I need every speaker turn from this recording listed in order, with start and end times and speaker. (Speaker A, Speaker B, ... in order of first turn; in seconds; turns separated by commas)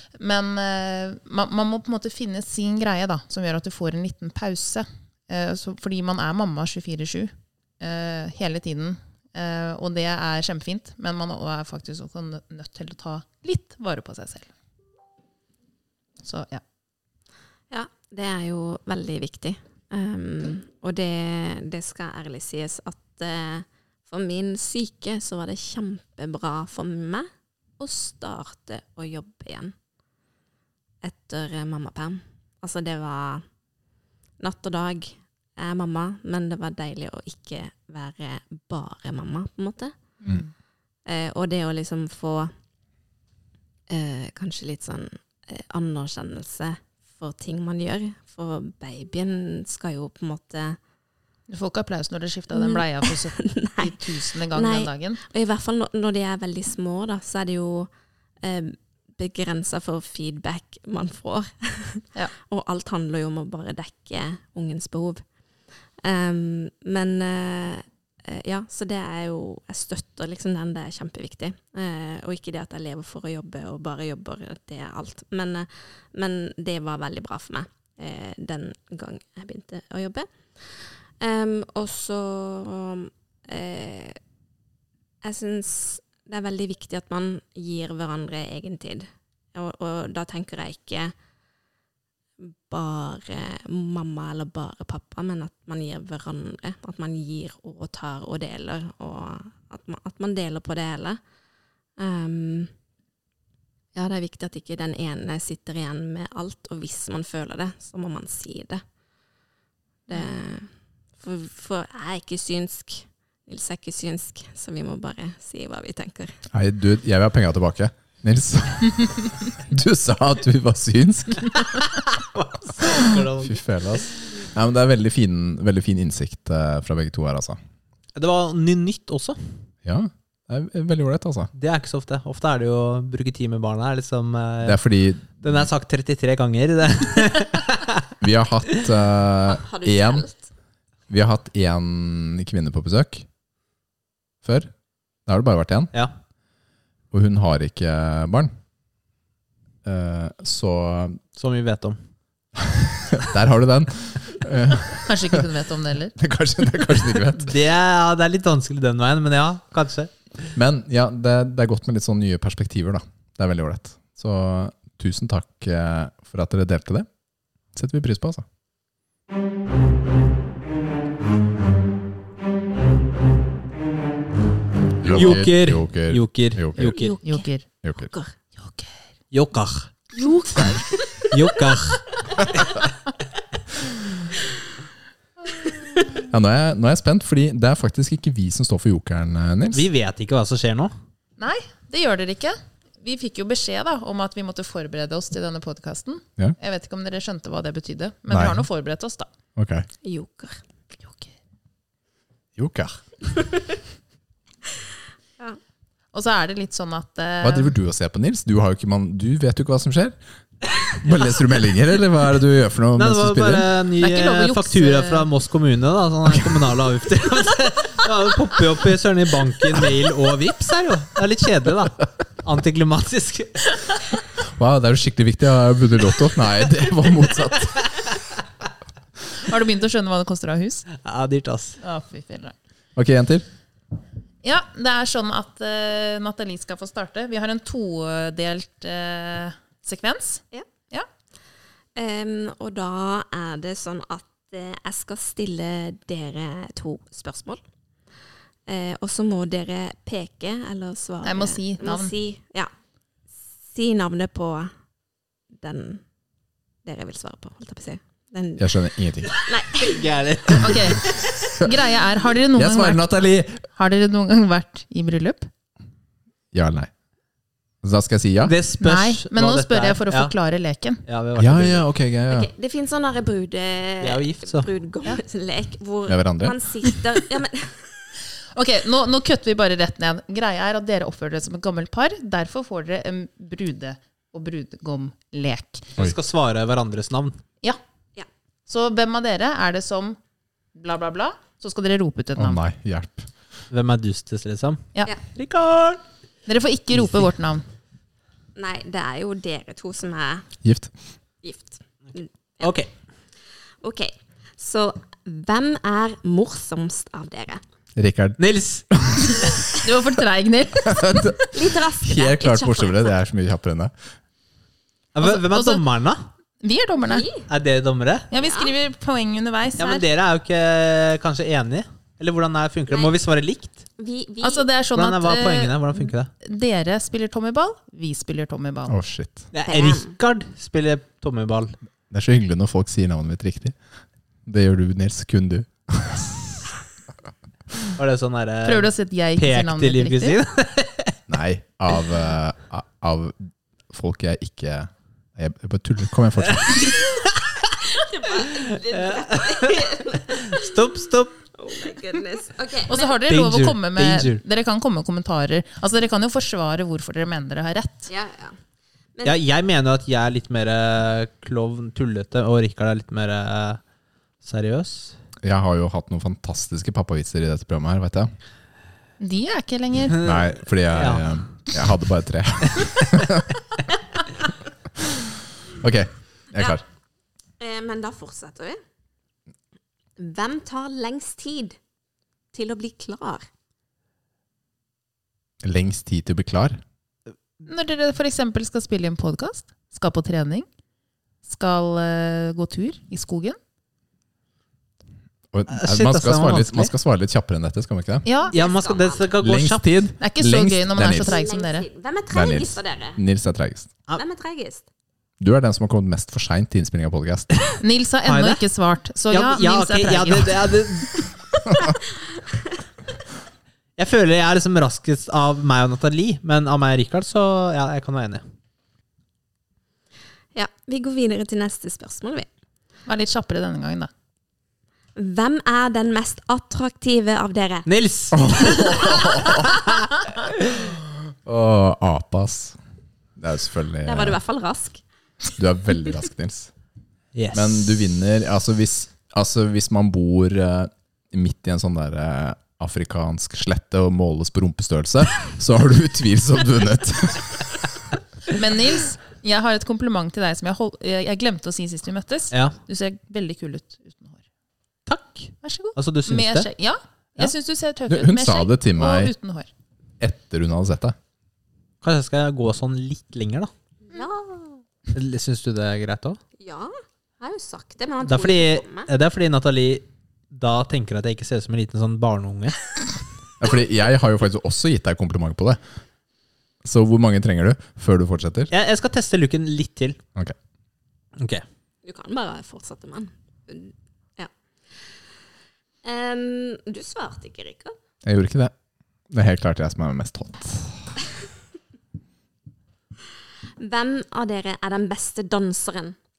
Speaker A: 0.2-14.5, Speaker A: 16.2-16.6, Speaker B: 17.7-29.7, Speaker B: 31.0-33.4, Speaker B: 34.4-39.9, Speaker A: 40.2-40.5, Speaker B: 41.1-42.5, Speaker B: 43.9-50.8, Speaker A: 51.5-55.2, Speaker B: 52.5-57.9, Speaker B: 58.4-65.2, Speaker B: 66.0-84.2, Speaker B: 85.2-91.1, Speaker B: 92.4-101.2, Speaker B: 102.0-102.7, Speaker B: 103.9-108.8, Speaker B: 110.1-116.4, Speaker C: 116.5-121.7, Speaker D: 121.8-123.6, Speaker C: 123.4-127.6, Speaker D: 128.2-129.4, Speaker C: 129.8-131.5, Speaker D: 131.6-134.8, Speaker C: 134.6-135.6, Speaker D: 135.4-138.1, Speaker C: 138.2-140.3, Speaker B: 139.5-140.4, Speaker C: 141.1-143.3, Speaker C: 144.4-144.7, Speaker C: 145.3-145.9, Speaker C: 147.1-148.5, Speaker C: 149.8-151.2, Speaker D: 151.4-152.0, Speaker C: 152.6-155.4, Speaker A: 155.1-156.2, Speaker C: 156.2-157.6, Speaker D: 157.3-160.1, Speaker C: 160.6-167.1, Speaker C: 167.7-168.4, Speaker C: 175.0-177.0, Speaker D: 175.0-177.2, Speaker B: 176.8-177.5, Speaker A: 177.2-177.7, Speaker C: 177.8-178.1, Speaker B: 178.0-178.3, Speaker A: 178.6-178.9, Speaker D: 179.3-179.9, Speaker B: 180.1-181.3, Speaker D: 181.3-182.0, Speaker C: 186.3-189.9, Speaker D: 189.7-190.9, Speaker A: 191.4-199.3, Speaker C: 198.3-198.7, Speaker C: 199.6-199.9, Speaker B: 200.0-200.6, Speaker A: 201.0-201.3, Speaker C: 202.6-203.0, Speaker A: 206.1-207.7, Speaker C: 207.4-210.2, Speaker C: 211.0-213.7, Speaker D: 213.0-223.9, Speaker A: 214.0-215.3, Speaker C: 224.6-228.0, Speaker A: 229.4-230.9, Speaker D: 231.0-231.8, Speaker A: 231.8-232.6, Speaker C: 233.0-233.4, Speaker A: 234.4-241.1, Speaker B: 242.0-247.6, Speaker B: 248.7-252.7, Speaker A: 251.2-252.1, Speaker B: 253.7-254.7, Speaker B: 255.5-256.0, Speaker B: 256.8-260.1, Speaker C: 258.6-259.3, Speaker D: 259.7-261.3, Speaker A: 260.6-263.1, Speaker C: 262.6-263.6, Speaker A: 263.7-265.5, Speaker C: 266.5-266.9, Speaker C: 267.8-268.6, Speaker D: 268.4-270.3, Speaker A: 268.8-271.0, Speaker D: 271.1-271.9, Speaker C: 271.4-272.5, Speaker B: 272.3-277.9, Speaker D: 274.0-274.7, Speaker C: 276.1-276.6, Speaker A: 278.5-285.9, Speaker D: 286.0-287.4, Speaker A: 288.7-290.2, Speaker A: 290.8-292.6, Speaker C: 292.4-293.3, Speaker D: 293.7-296.0, Speaker A: 296.5-297.6, Speaker B: 298.6-300.5, Speaker C: 300.6-300.9, Speaker B: 301.4-302.7, Speaker D: 302.6-302.9, Speaker B: 303.8-307.6, Speaker C: 308.0-308.4, Speaker D: 308.4-308.9, Speaker C: 308.9-309.4, Speaker A: 309.8-311.3, Speaker C: 310.8-311.5, Speaker B: 311.4-313.1, Speaker C: 312.0-313.9, Speaker D: 315.1-316.3, Speaker A: 315.2-315.9, Speaker A: 316.6-317.3, Speaker B: 317.1-317.5, Speaker D: 317.5-318.3, Speaker A: 318.3-320.1, Speaker B: 318.4-318.7, Speaker D: 319.8-323.8, Speaker B: 324.0-324.7, Speaker A: 324.4-329.0, Speaker D: 324.9-326.3, Speaker C: 328.9-329.5, Speaker D: 329.5-331.8, Speaker B: 329.7-330.1, Speaker C: 332.1-333.8, Speaker C: 334.5-336.4, Speaker D: 338.0-341.1, Speaker A: 338.6-340.4, Speaker C: 341.3-343.4, Speaker C: 343.9-346.9, Speaker D: 346.7-347.4, Speaker B: 347.9-350.8, Speaker D: 348.5-351.4, Speaker B: 351.5-353.2, Speaker A: 352.9-358.1, Speaker D: 353.3-354.4, Speaker B: 358.1-358.6, Speaker D: 359.2-363.8, Speaker D: 364.4-365.2, Speaker C: 365.4-368.3, Speaker A: 369.2-370.2, Speaker C: 370.2-373.5, Speaker D: 370.9-371.2, Speaker D: 372.8-373.0, Speaker C: 375.8-376.8, Speaker B: 377.6-378.8, Speaker B: 380.2-381.8, Speaker B: 382.5-383.5, Speaker C: 385.6-386.8, Speaker A: 387.7-390.7, Speaker A: 391.4-393.6, Speaker C: 395.5-398.3, Speaker D: 395.7-396.9, Speaker A: 398.2-398.6, Speaker B: 398.5-399.3, Speaker D: 398.5-399.9, Speaker C: 399.4-401.4, Speaker A: 400.2-401.9, Speaker B: 401.1-403.2, Speaker C: 402.3-403.9, Speaker B: 404.1-404.9, Speaker C: 405.4-407.5, Speaker D: 407.6-408.6, Speaker A: 407.8-410.7, Speaker D: 409.3-411.2, Speaker D: 414.0-418.4, Speaker B: 420.5-422.5, Speaker A: 423.1-424.1, Speaker B: 425.2-427.9, Speaker D: 427.9-428.9, Speaker C: 428.3-429.8, Speaker B: 428.8-429.8, Speaker C: 431.4-432.8, Speaker C: 433.4-434.4, Speaker B: 434.1-435.0, Speaker C: 435.6-436.7, Speaker D: 437.4-438.0, Speaker C: 437.5-447.6, Speaker A: 448.5-454.4, Speaker D: 455.1-456.7, Speaker A: 455.6-459.7, Speaker C: 458.1-459.3, Speaker C: 460.2-461.2, Speaker D: 462.0-463.7, Speaker B: 464.1-464.8, Speaker D: 465.1-466.4, Speaker B: 466.6-469.1, Speaker D: 468.2-472.8, Speaker C: 473.6-475.8, Speaker C: 476.8-478.7, Speaker D: 478.7-480.2, Speaker D: 481.4-481.6, Speaker B: 482.0-484.5, Speaker B: 486.0-488.0, Speaker C: 488.2-488.7, Speaker C: 489.3-491.1, Speaker B: 493.8-496.2